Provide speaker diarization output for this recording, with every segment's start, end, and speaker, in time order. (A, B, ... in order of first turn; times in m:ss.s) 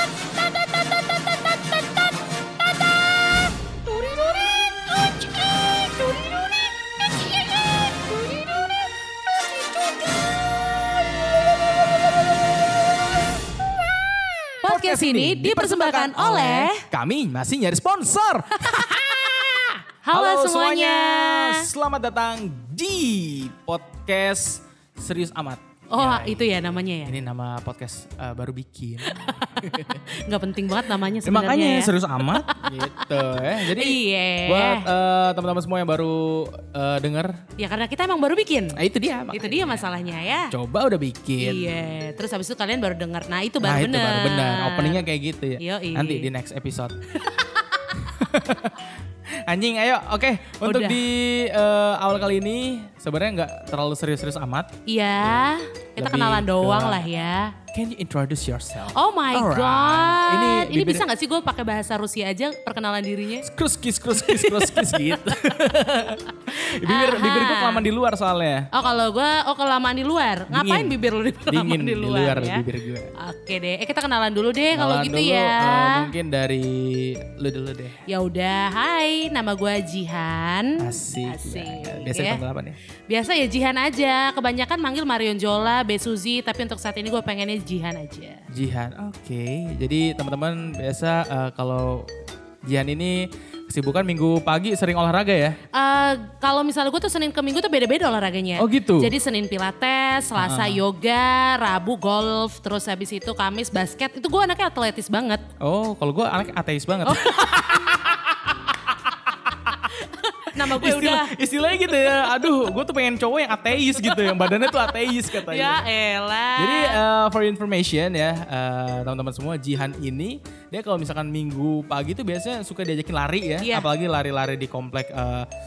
0:03.9-0:04.4 A
0:05.2-0:06.5 A
0:14.6-0:16.8 A
0:14.6-0:19.5 B
0:18.6-0:21.7 A
0:20.1-0:30.0 B
0:25.9-0:27.2 A
0:29.0-0:33.0 A
0:31.2-0:37.4 B
0:33.6-0:34.9 A
0:37.6-0:38.8 A
0:38.7-0:39.9 B
0:39.3-0:40.5 A
0:40.4-0:41.8 B
0:41.4-0:45.0 A
0:43.6-0:47.0 B
0:45.6-0:46.3 A
0:47.2-0:48.0 A
0:47.9-0:48.9 B
0:49.5-0:54.7 B
0:50.6-0:51.0 A
0:54.9-0:57.5 A
0:56.0-0:57.0 B
0:57.7-1:01.0 B
0:58.9-1:03.4 A
1:03.4-1:08.7 B
1:04.1-1:05.5 A
1:06.5-1:07.8 A
1:08.7-1:12.6 A
1:10.5-1:13.1 B
1:13.2-1:16.1 A
1:14.7-1:18.0 B
1:18.1-1:22.4 A
1:20.8-1:22.8 B
1:23.1-1:28.5 A
1:28.5-1:32.1 B
1:32.6-1:35.6 B
1:35.7-1:45.4 A
1:38.6-1:39.1 B
1:40.4-1:40.8 B
1:45.6-1:48.2 B
1:47.0-1:48.2 A
1:49.9-1:51.4 A
1:50.6-1:55.8 B
1:52.0-1:52.3 A
1:54.0-1:57.0 A
1:56.6-2:05.5 B
2:03.6-2:03.9 A